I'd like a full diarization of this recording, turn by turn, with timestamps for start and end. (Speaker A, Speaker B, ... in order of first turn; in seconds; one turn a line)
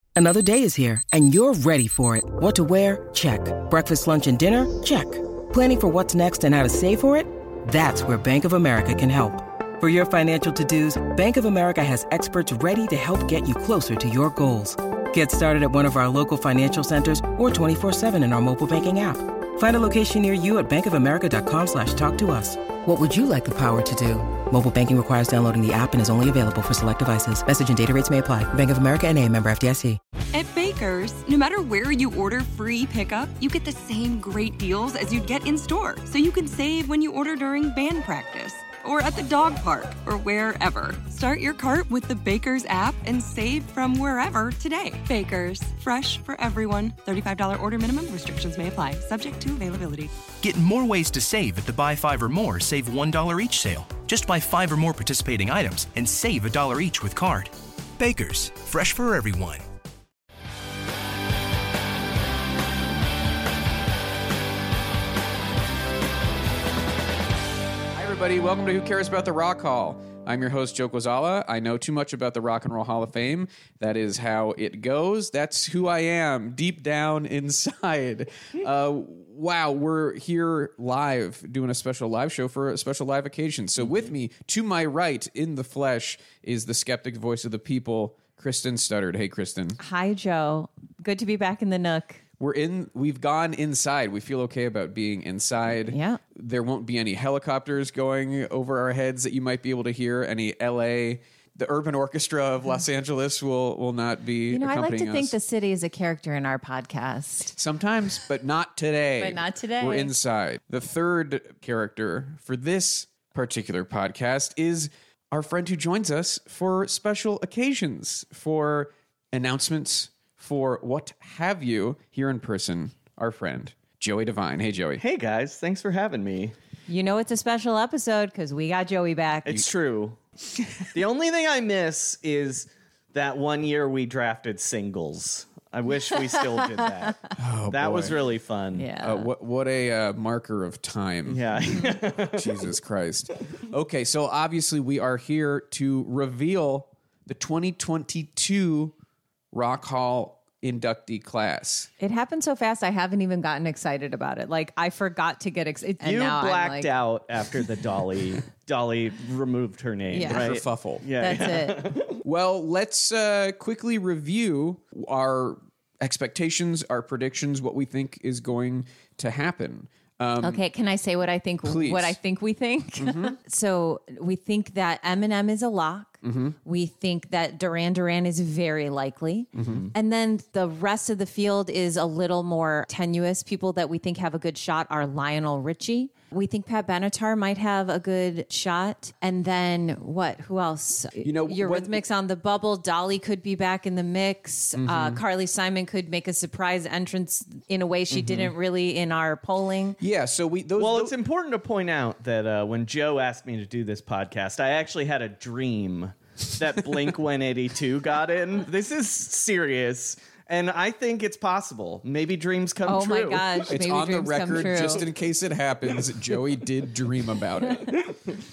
Speaker A: 0.2-30.0
Speaker B: 30.3-50.1
Speaker C: 50.4-59.6
Speaker D: 67.9-89.8
Speaker E: 89.8-92.2
Speaker D: 92.4-105.3
Speaker E: 95.9-96.2
Speaker E: 104.5-107.5
Speaker D: 107.5-125.0
Speaker E: 109.2-110.1
Speaker F: 125.0-126.5
Speaker E: 126.9-129.6
Speaker F: 129.4-130.2
Speaker F: 130.9-138.9
Speaker D: 137.3-138.2
Speaker E: 138.7-139.3
Speaker D: 139.0-141.6
Speaker F: 141.2-142.6
Speaker D: 142.2-148.9
Speaker D: 149.5-151.9
Speaker E: 152.0-156.9
Speaker F: 156.0-162.2
Speaker E: 160.1-160.5
Speaker D: 160.2-161.1
Speaker E: 161.2-162.0
Speaker D: 162.2-170.6
Speaker E: 170.4-200.0
Speaker D: 171.7-172.2
Speaker D: 173.0-173.3
Speaker D: 176.2-176.6
Speaker D: 179.5-179.9
Speaker F: 179.6-179.9
Speaker D: 191.2-192.0
Speaker D: 194.8-195.2
Speaker D: 198.1-198.5
Speaker D: 200.0-201.2
Speaker F: 200.8-213.7
Speaker E: 212.8-215.1
Speaker D: 213.7-218.1